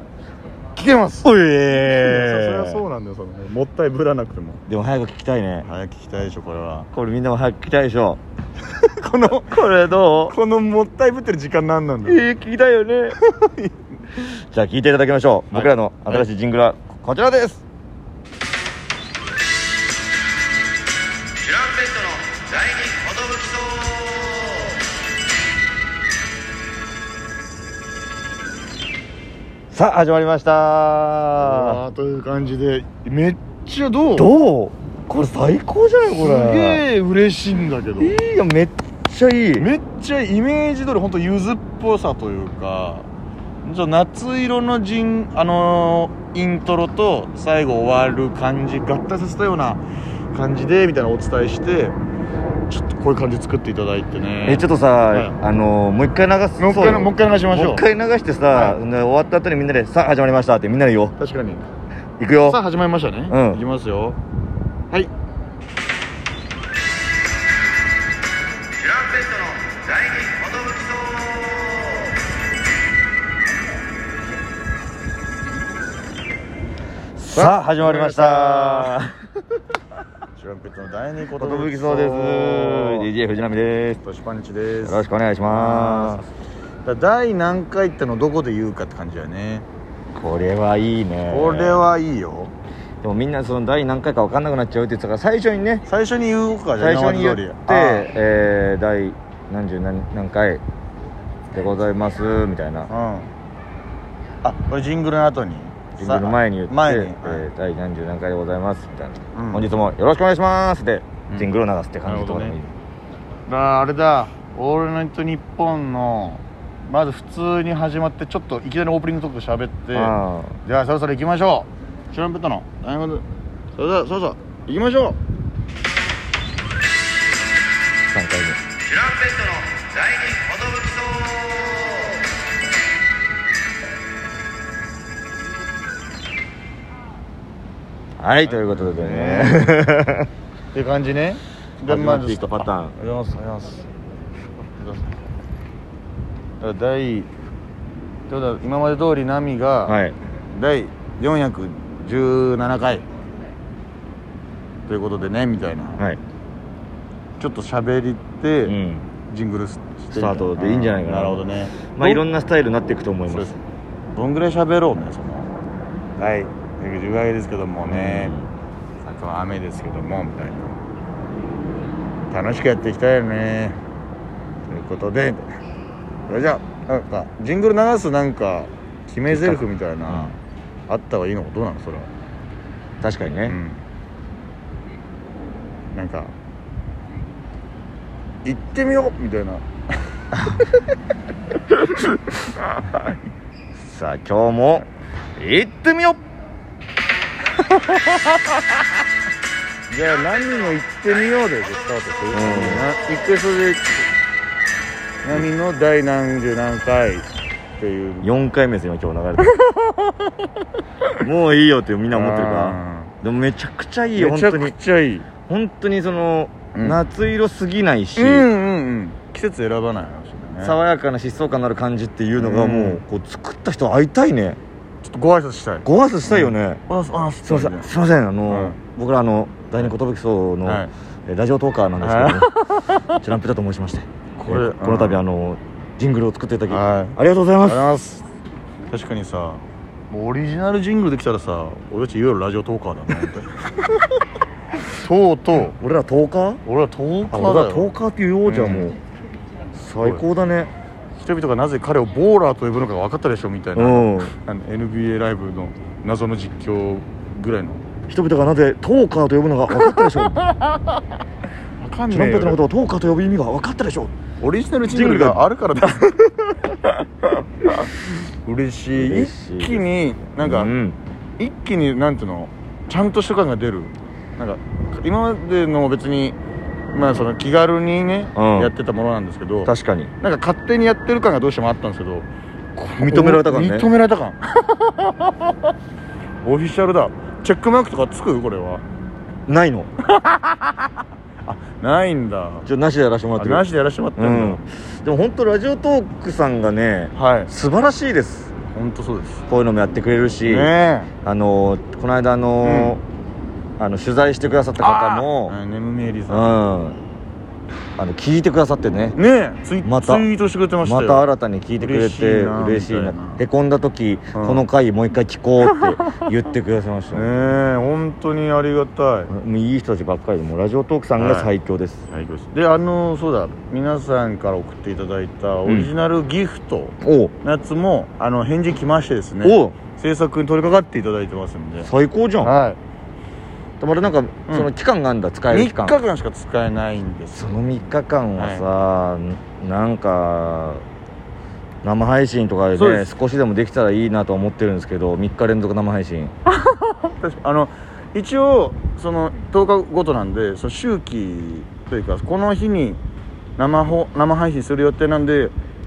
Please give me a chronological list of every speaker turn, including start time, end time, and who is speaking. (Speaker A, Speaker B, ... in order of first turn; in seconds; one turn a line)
Speaker A: 0.7-1.3
Speaker B: 1.2-2.8
Speaker A: 1.8-4.6
Speaker B: 4.7-5.7
Speaker A: 5.6-6.9
Speaker B: 6.9-8.2
Speaker A: 8.8-9.7
Speaker B: 9.2-10.3
Speaker A: 10.2-12.2
Speaker B: 12.0-13.2
Speaker A: 13.1-13.7
Speaker B: 14.2-17.6
Speaker A: 15.5-16.2
Speaker B: 21.6-24.3
Speaker B: 29.7-31.8
Speaker A: 31.4-34.3
Speaker B: 34.1-36.8
Speaker A: 36.1-38.2
Speaker B: 38.0-39.7
Speaker A: 39.5-43.1
Speaker A: 43.6-49.8
Speaker A: 50.3-52.0
Speaker A: 52.7-55.4
Speaker B: 54.5-61.1
Speaker A: 56.6-57.8
Speaker A: 58.5-58.8
Speaker A: 61.2-61.6
Speaker B: 62.2-62.6
Speaker A: 62.4-64.2
Speaker B: 63.3-63.6
Speaker B: 68.9-72.0
Speaker B: 77.1-79.3
Speaker A: 77.3-79.0
Speaker A: 80.3-83.1
Speaker B: 81.4-84.0
Speaker A: 84.0-86.3
Speaker B: 84.8-86.2
Speaker A: 86.8-89.7
Speaker B: 90.1-91.8
Speaker A: 91.3-92.5
Speaker B: 93.0-95.8
Speaker A: 95.9-98.1
Speaker B: 96.8-100.6
Speaker B: 101.5-102.9
Speaker A: 102.9-103.3
Speaker A: 104.4-107.4
Speaker B: 106.0-112.7
Speaker A: 109.3-109.7
Speaker A: 112.0-112.5
Speaker A: 113.5-123.2
Speaker B: 119.9-120.6
Speaker A: 123.8-125.2
Speaker B: 128.1-128.6
Speaker B: 138.2-140.3
Speaker A: 138.4-139.7
Speaker A: 140.7-143.9
Speaker B: 141.9-142.9
Speaker A: 144.6-145.2
Speaker A: 146.6-147.3
Speaker A: 148.3-150.0
Speaker B: 149.8-150.2
Speaker A: 150.5-153.0
Speaker A: 154.9-156.0
Speaker A: 157.4-162.2
Speaker B: 158.6-159.1
Speaker B: 160.1-161.4
Speaker B: 161.9-163.6
Speaker A: 163.3-163.6
Speaker A: 164.1-165.5
Speaker A: 166.2-168.3
Speaker B: 167.8-168.5
Speaker A: 169.0-170.8
Speaker A: 172.3-173.8
Speaker A: 174.7-175.5
Speaker A: 176.3-180.4
Speaker B: 179.3-180.3
Speaker A: 180.9-182.1
Speaker B: 183.0-183.6
Speaker A: 183.4-183.8
Speaker A: 185.9-186.3
Speaker A: 188.4-189.6
Speaker B: 193.8-196.2
Speaker A: 199.9-204.1
Speaker B: 202.3-202.9
Speaker A: 205.2-207.3
Speaker A: 207.8-208.3
Speaker B: 208.2-209.5
Speaker A: 209.4-210.1
Speaker B: 211.2-214.7
Speaker A: 212.1-213.1
Speaker A: 214.1-215.3
Speaker B: 215.5-218.5
Speaker A: 218.2-220.8
Speaker B: 220.6-224.6
Speaker A: 222.3-223.0
Speaker A: 225.0-227.9
Speaker B: 225.8-226.8
Speaker B: 227.4-232.5
Speaker A: 228.5-228.8
Speaker A: 230.6-230.9
Speaker A: 232.0-233.2
Speaker B: 233.1-237.8
Speaker A: 234.4-235.2
Speaker A: 236.7-238.2
Speaker A: 238.9-243.6
Speaker A: 244.8-245.7
Speaker B: 245.8-246.6
Speaker A: 246.6-247.9
Speaker B: 247.3-249.0
Speaker A: 248.4-248.9
Speaker B: 249.7-250.7
Speaker A: 251.2-257.8
Speaker B: 253.8-254.3
Speaker B: 258.1-260.4
Speaker A: 259.9-260.8
Speaker A: 261.8-262.6
Speaker B: 262.1-264.1
Speaker A: 264.4-266.2
Speaker B: 264.9-265.4
Speaker A: 266.8-267.9
Speaker A: 268.4-270.7
Speaker B: 268.9-269.8
Speaker B: 270.4-271.0
Speaker A: 271.4-276.4
Speaker A: 276.9-285.5
Speaker B: 278.3-278.7
Speaker B: 279.6-280.1
Speaker B: 283.0-283.9
Speaker A: 286.4-288.8
Speaker B: 289.5-289.9
Speaker A: 290.1-290.8
Speaker A: 291.4-292.7
Speaker B: 292.6-293.6
Speaker A: 293.4-294.6
Speaker B: 294.1-298.5
Speaker A: 297.1-297.5
Speaker A: 298.7-299.4
Speaker B: 299.5-300.7
Speaker A: 300.4-301.1
Speaker B: 301.2-303.0
Speaker A: 302.6-303.0
Speaker B: 303.8-305.6
Speaker A: 304.8-306.6
Speaker B: 306.3-307.0
Speaker B: 308.0-309.2
Speaker A: 309.1-311.2
Speaker B: 309.8-310.3
Speaker B: 310.8-317.5
Speaker A: 311.8-313.4
Speaker A: 314.3-314.6
Speaker A: 317.1-319.3
Speaker B: 319.3-322.0
Speaker A: 321.2-321.5
Speaker A: 322.1-331.9
Speaker B: 327.0-327.3
Speaker B: 329.4-329.8
Speaker B: 331.8-332.5
Speaker A: 332.4-332.8
Speaker B: 333.8-336.0
Speaker A: 335.5-337.6
Speaker B: 337.3-340.8
Speaker A: 338.4-338.7
Speaker B: 341.8-346.3
Speaker A: 342.7-343.1
Speaker A: 346.7-353.0
Speaker A: 353.6-355.5